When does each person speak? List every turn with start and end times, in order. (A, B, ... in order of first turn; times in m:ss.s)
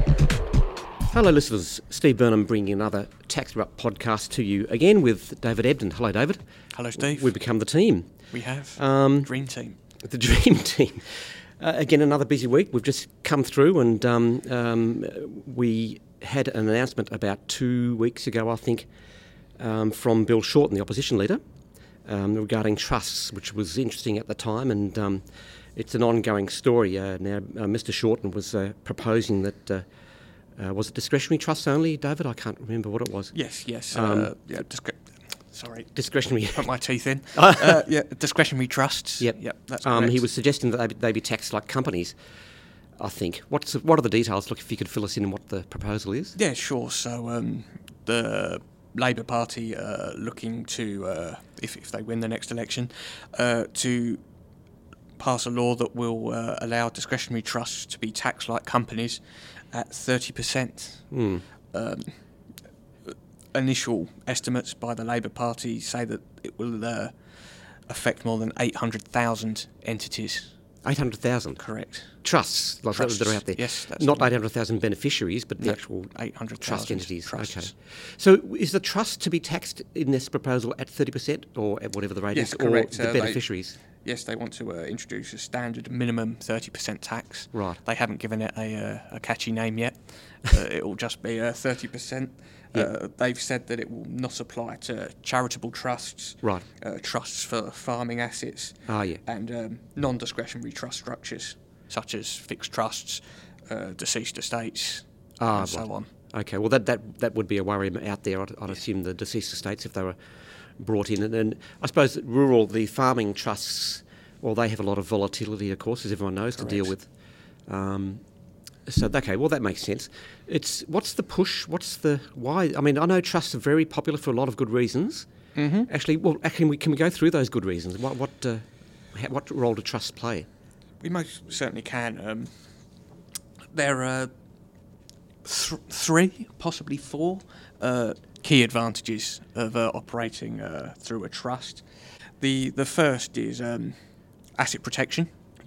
0:01.1-0:06.4 A
0:06.7-0:07.4 B
0:07.0-0:08.1 A
0:08.3-0:09.8 B
0:08.8-0:09.3 A
0:10.0-0:18.9 A
0:19.6-0:21.4 A
0:22.0-0:25.2 A
0:25.8-0:29.8 A
0:30.6-0:33.3 A
0:33.3-0:40.3 B
0:33.9-0:34.3 A
0:36.0-0:36.7 A
0:37.3-0:37.8 A
0:39.2-0:42.2 A
0:43.0-0:46.4 A
0:46.4-0:54.2 B
0:55.2-1:01.1 B
1:01.1-1:01.4 A
1:01.7-1:02.1 B
1:03.1-1:07.2 B
1:07.9-1:10.5 B
1:10.8-1:11.6 A
1:11.6-1:12.2 B
1:12.2-1:23.8 A
1:12.9-1:14.3 B
1:15.6-1:17.7 B
1:22.3-1:23.5 B
1:24.0-1:46.1 B
1:27.5-1:27.8 A
1:38.9-1:39.2 A
1:45.4-1:50.2 A
1:50.8-1:57.1 A
1:56.6-1:56.9 B
1:57.7-1:58.2 A
1:58.9-2:05.3 A
2:05.6-2:05.9 B
2:05.9-2:10.5 A
2:11.0-2:12.5 B
2:13.7-2:14.3 B
2:15.4-2:21.8 B
2:22.4-2:24.0 B
2:24.6-2:25.3 B